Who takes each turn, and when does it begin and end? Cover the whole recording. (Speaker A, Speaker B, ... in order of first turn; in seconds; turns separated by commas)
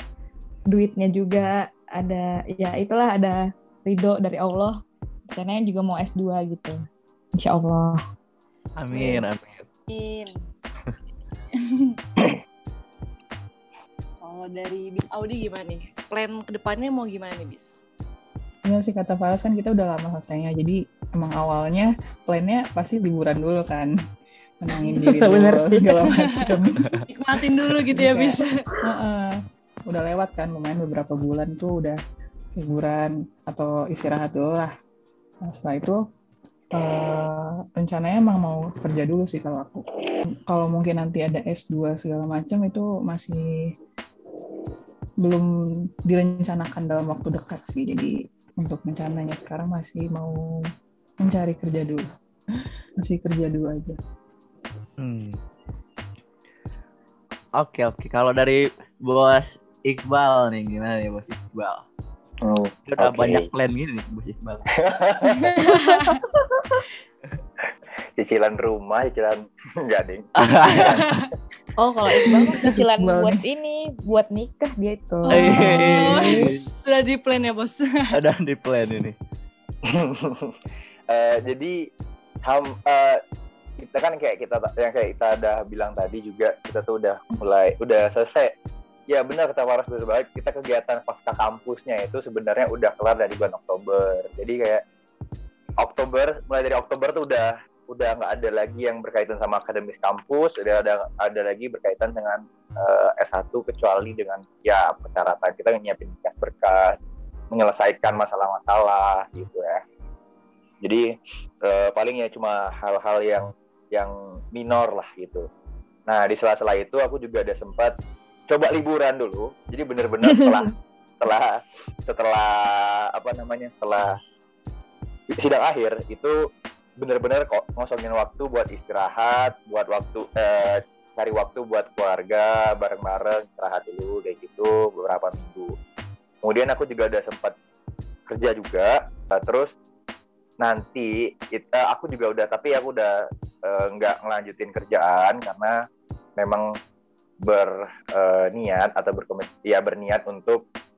Speaker A: 0.7-4.8, Speaker A: 5.3-6.8, Speaker A: 7.4-8.0, Speaker B: 8.8-9.7, Speaker C: 8.9-9.2, Speaker D: 9.9-10.4, Speaker D: 11.6-12.0, Speaker D: 14.2-17.8, Speaker E: 18.7-23.9, Speaker E: 24.6-27.0, Speaker A: 24.8-25.9, Speaker D: 26.2-26.5, Speaker D: 27.1-28.6, Speaker E: 27.9-32.0, Speaker E: 32.6-34.7, Speaker E: 35.5-36.0, Speaker E: 36.7-39.9, Speaker E: 40.5-43.7, Speaker E: 45.2-45.5, Speaker E: 46.0-50.4, Speaker E: 51.2-52.0, Speaker E: 53.0-54.0, Speaker B: 55.0-55.4, Speaker B: 57.6-61.8, Speaker C: 62.4-63.5, Speaker B: 62.9-64.7, Speaker C: 64.8-65.6, Speaker D: 65.5-66.2, Speaker C: 68.2-71.0, Speaker B: 70.4-71.0, Speaker D: 70.8-71.3, Speaker A: 71.8-76.5, Speaker E: 72.5-73.4, Speaker D: 75.3-78.2, Speaker B: 75.3-76.7, Speaker B: 78.2-79.2, Speaker C: 79.9-80.6, Speaker C: 81.1-81.8, Speaker C: 82.5-83.2, Speaker C: 83.8-88.5, Speaker C: 89.1-94.8, Speaker C: 95.8-107.0, Speaker C: 107.5-109.8, Speaker C: 110.8-111.1, Speaker C: 111.6-115.5, Speaker C: 116.1-117.9, Speaker C: 118.5-124.2, Speaker C: 125.3-126.4, Speaker C: 127.0-135.7, Speaker C: 136.4-137.6, Speaker C: 138.3-139.7, Speaker C: 140.6-145.8, Speaker C: 146.4-146.7, Speaker C: 147.4-150.6